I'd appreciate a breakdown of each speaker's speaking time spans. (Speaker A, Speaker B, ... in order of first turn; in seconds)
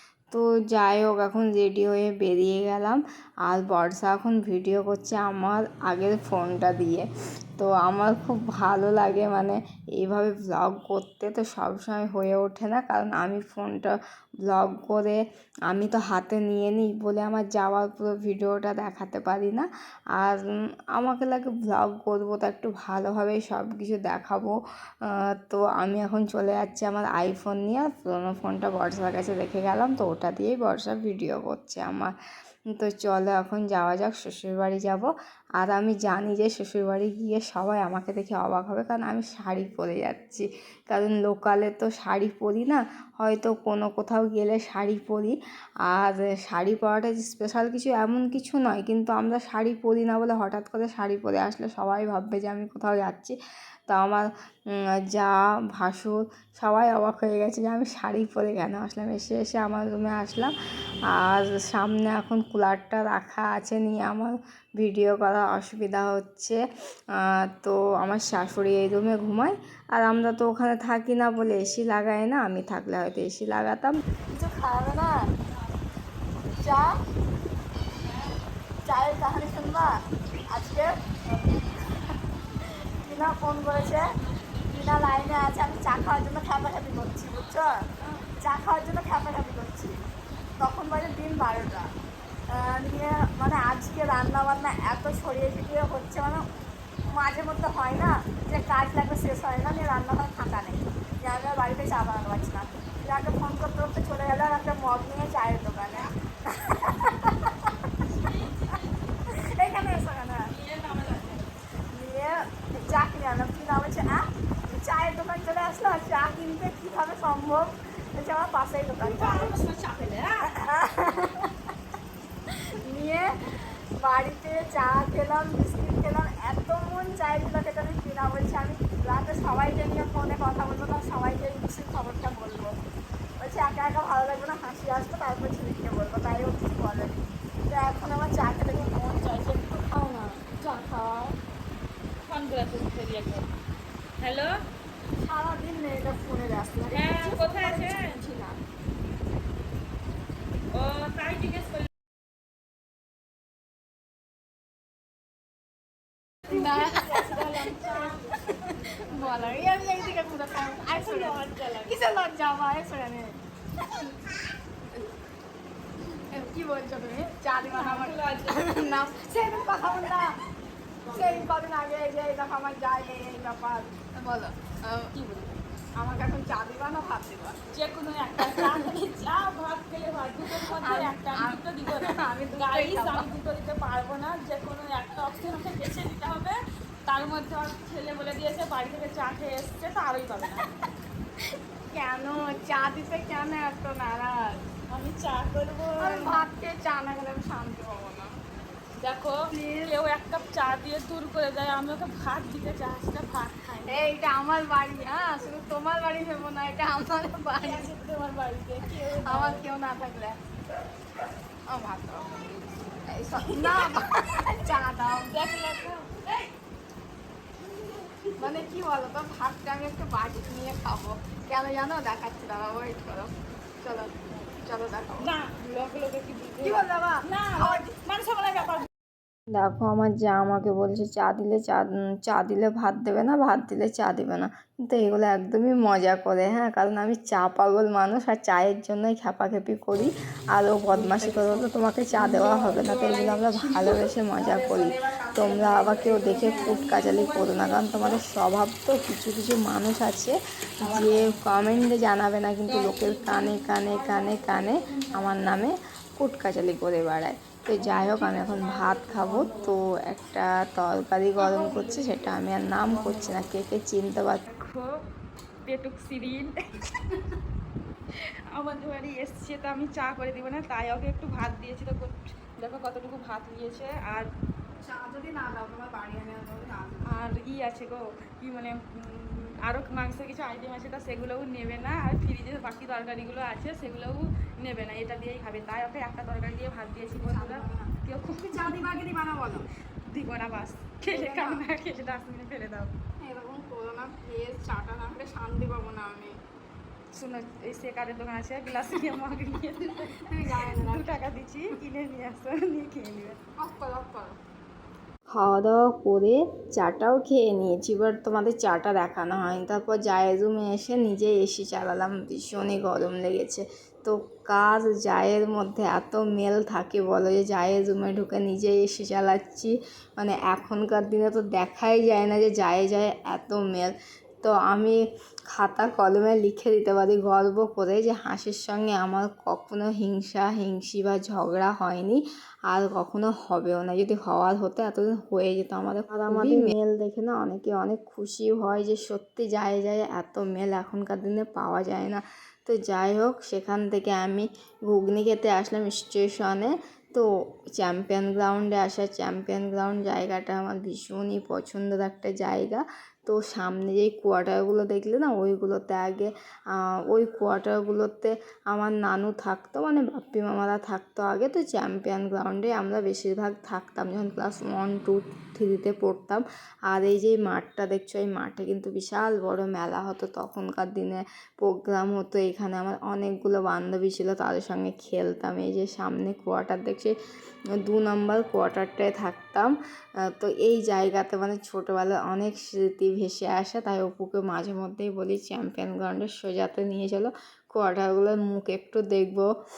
Speaker A: 0.3-32.1, 32.7-45.4, 45.9-53.4, 53.9-60.5, 61.1-66.6, 67.2-74.0, 229.5-264.4, 305.3-325.0, 325.5-377.2, 377.8-379.7, 380.3-389.5
Speaker B: 74.3-75.1, 76.6-77.0, 78.8-79.9, 80.5-82.1, 83.0-84.1, 84.7-90.0, 90.6-91.9, 92.5-96.5, 97.1-107.7, 109.4-110.5, 111.9-119.5, 120.4-121.5, 122.8-123.3, 124.0-132.8, 133.4-141.4, 145.2-148.6, 156.5-163.4, 166.3-170.4, 171.1-175.2, 176.0-177.7, 178.4-178.9, 180.7-183.3, 191.9-194.7, 196.0-198.3, 199.5-199.9, 203.8-207.9, 209.2-210.4, 211.7-212.4, 213.1-215.3, 218.4-225.3, 226.6-227.9, 274.8-277.2, 287.2-287.9, 288.5-289.7, 291.1-291.7, 293.2-296.3, 300.3-301.2, 303.6-304.4
Speaker C: 108.2-109.8, 110.4-111.5, 119.0-120.5, 142.2-143.5, 144.2-144.6, 146.9-148.2, 150.7-151.9, 156.5-162.1, 167.6-170.4, 171.0-171.5, 175.1-175.6, 177.7-190.7, 194.9-196.5, 199.0-204.2, 207.6-209.7, 213.3-214.1, 214.6-216.5, 217.7-218.6, 225.2-228.9, 240.9-248.2, 250.8-251.8, 252.7-255.7, 257.8-259.8, 261.4-263.5, 264.5-264.9, 265.7-267.4, 268.5-274.3, 277.1-289.0, 290.1-292.9, 297.1-303.4